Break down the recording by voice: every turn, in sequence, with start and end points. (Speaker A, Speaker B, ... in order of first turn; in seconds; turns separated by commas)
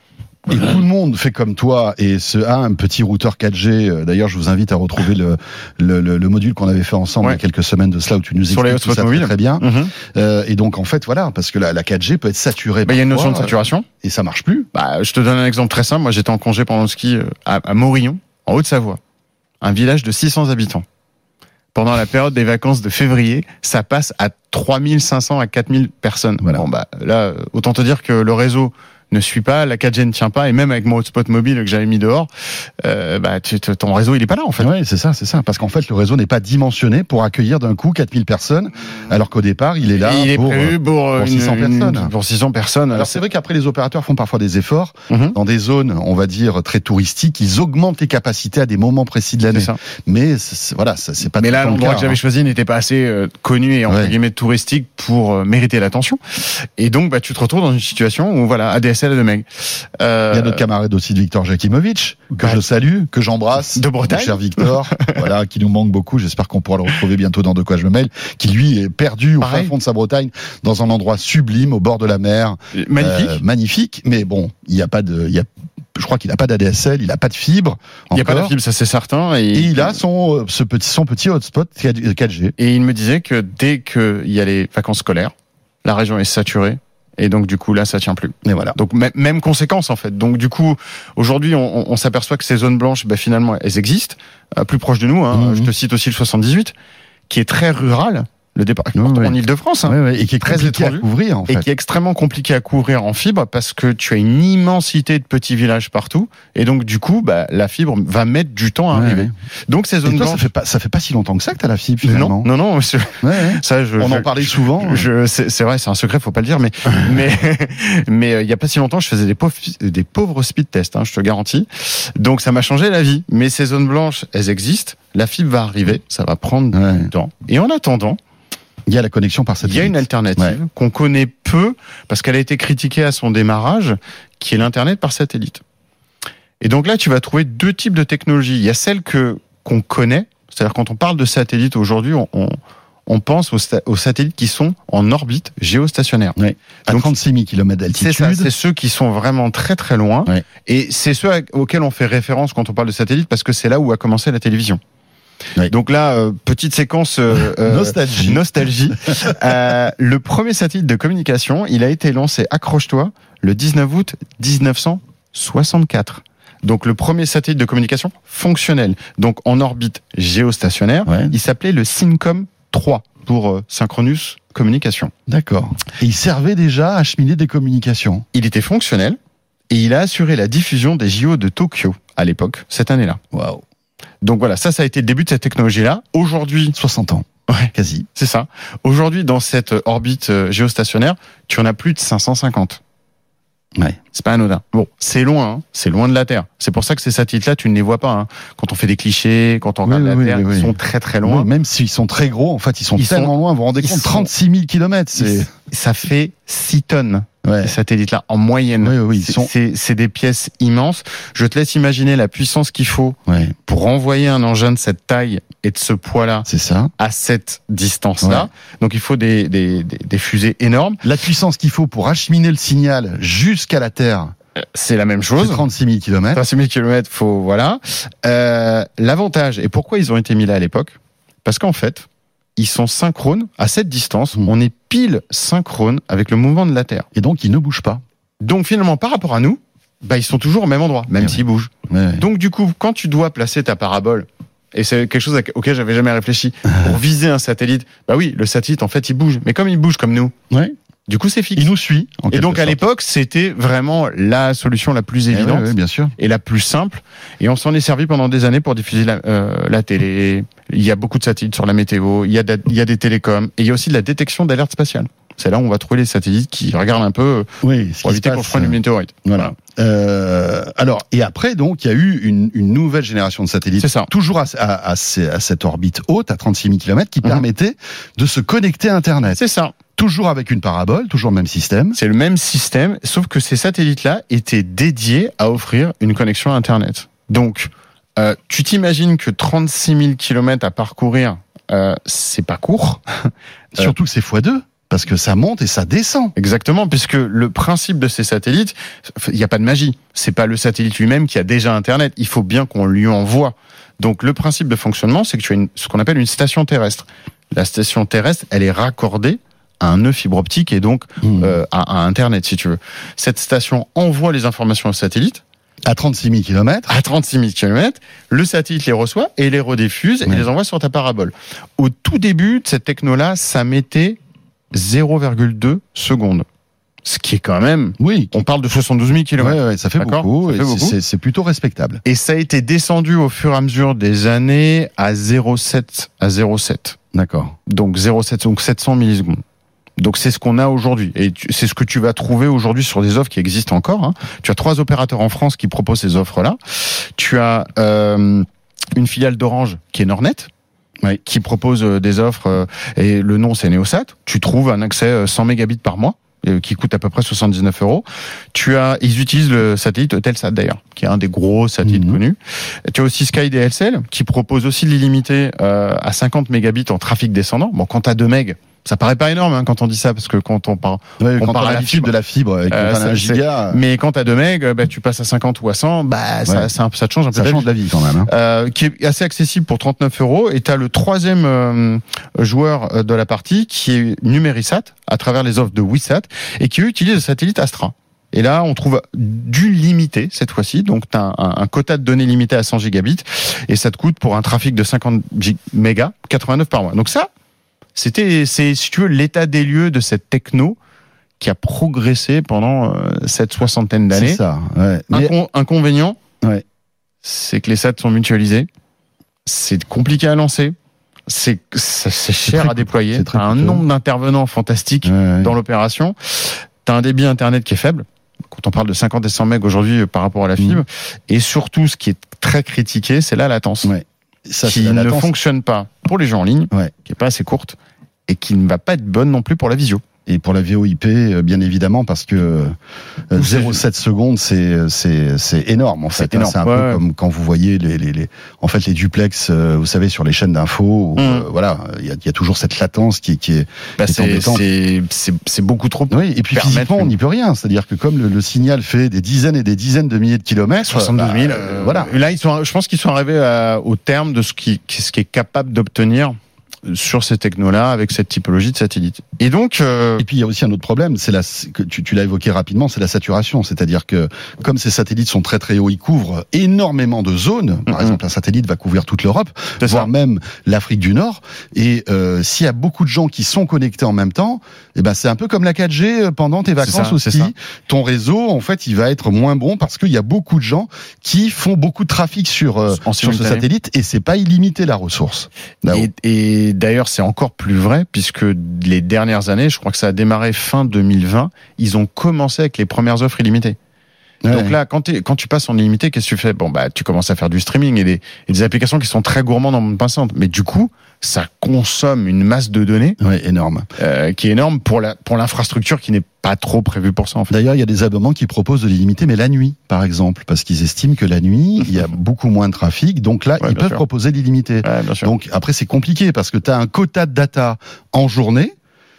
Speaker A: 0.5-14.7, Speaker B: 8.5-9.9, Speaker B: 12.8-13.9, Speaker B: 14.7-19.0, Speaker B: 19.6-20.9, Speaker B: 21.7-32.3, Speaker B: 32.8-34.7, Speaker A: 34.6-42.1, Speaker B: 40.0-43.2, Speaker A: 42.9-52.2, Speaker B: 45.1-45.4, Speaker B: 49.5-49.8, Speaker B: 51.4-56.2, Speaker A: 53.9-54.1, Speaker B: 56.8-60.6, Speaker A: 60.3-78.5, Speaker B: 62.3-62.7, Speaker B: 63.8-65.3, Speaker B: 69.4-69.7, Speaker B: 72.7-73.4, Speaker B: 78.1-80.0, Speaker A: 79.5-82.5, Speaker B: 82.6-96.7, Speaker A: 88.4-88.8, Speaker A: 95.3-95.7, Speaker B: 97.3-110.5, Speaker A: 99.0-99.4, Speaker A: 99.9-101.7, Speaker A: 108.9-109.3, Speaker A: 110.0-112.5, Speaker B: 112.0-128.2, Speaker A: 113.2-115.1, Speaker A: 126.7-127.1, Speaker A: 128.9-130.6, Speaker B: 129.6-135.6, Speaker B: 136.6-146.4, Speaker A: 146.4-148.5, Speaker B: 148.0-154.8, Speaker B: 155.7-175.1, Speaker A: 157.6-159.4, Speaker A: 171.1-171.3, Speaker A: 175.3-178.3, Speaker B: 178.3-179.2, Speaker B: 179.7-183.2, Speaker A: 183.3-183.6, Speaker B: 184.2-186.8, Speaker A: 186.8-188.1, Speaker B: 187.5-192.8, Speaker B: 194.1-201.5, Speaker A: 199.8-205.5, Speaker B: 203.0-204.3, Speaker B: 205.2-216.5, Speaker A: 207.4-207.7, Speaker A: 208.8-209.5, Speaker A: 213.3-213.5, Speaker A: 216.5-216.9, Speaker B: 217.0-221.0, Speaker A: 218.2-218.5, Speaker A: 221.0-224.3, Speaker B: 224.6-225.6, Speaker A: 225.4-226.4, Speaker B: 226.3-237.1, Speaker A: 237.2-238.0, Speaker B: 238.4-250.3, Speaker A: 241.2-242.2, Speaker A: 246.7-247.0, Speaker B: 251.1-251.8, Speaker A: 251.6-252.8, Speaker B: 252.3-267.5, Speaker A: 255.3-256.1, Speaker A: 267.6-279.4, Speaker B: 268.0-269.5, Speaker B: 273.8-274.1, Speaker B: 279.4-279.8, Speaker A: 280.0-282.0, Speaker B: 281.9-293.9, Speaker A: 293.8-296.4, Speaker B: 296.4-315.4, Speaker A: 311.2-311.5, Speaker A: 315.9-316.9, Speaker B: 316.9-324.2, Speaker B: 324.7-326.5, Speaker B: 327.1-330.9, Speaker A: 328.0-328.4, Speaker A: 329.4-332.0, Speaker B: 332.1-337.0, Speaker A: 337.1-337.6, Speaker B: 337.7-339.4, Speaker B: 340.0-350.5, Speaker B: 351.2-372.1, Speaker A: 361.8-362.2, Speaker A: 371.2-373.8, Speaker B: 372.7-377.7, Speaker A: 377.3-378.3, Speaker B: 378.2-397.3, Speaker B: 398.0-400.8, Speaker B: 401.4-404.4, Speaker A: 404.1-405.3, Speaker B: 405.1-406.2, Speaker B: 407.2-408.7, Speaker B: 409.5-410.8, Speaker B: 411.3-423.9, Speaker A: 412.5-413.8, Speaker A: 415.0-415.5, Speaker A: 423.8-425.3, Speaker B: 424.6-427.8, Speaker B: 428.3-430.0, Speaker A: 430.3-432.8, Speaker A: 433.3-444.6, Speaker B: 433.4-433.8, Speaker B: 436.1-437.0, Speaker B: 441.2-441.5, Speaker B: 444.0-447.1, Speaker A: 446.1-452.1, Speaker B: 450.8-460.3, Speaker A: 460.2-486.1, Speaker B: 467.9-468.2, Speaker B: 469.8-470.1, Speaker B: 476.8-477.5, Speaker B: 482.9-483.7, Speaker B: 485.9-493.8, Speaker A: 494.4-494.7, Speaker B: 494.5-503.2, Speaker A: 503.2-503.9, Speaker B: 504.0-507.5, Speaker A: 507.5-518.8, Speaker B: 513.6-514.0, Speaker B: 514.8-515.3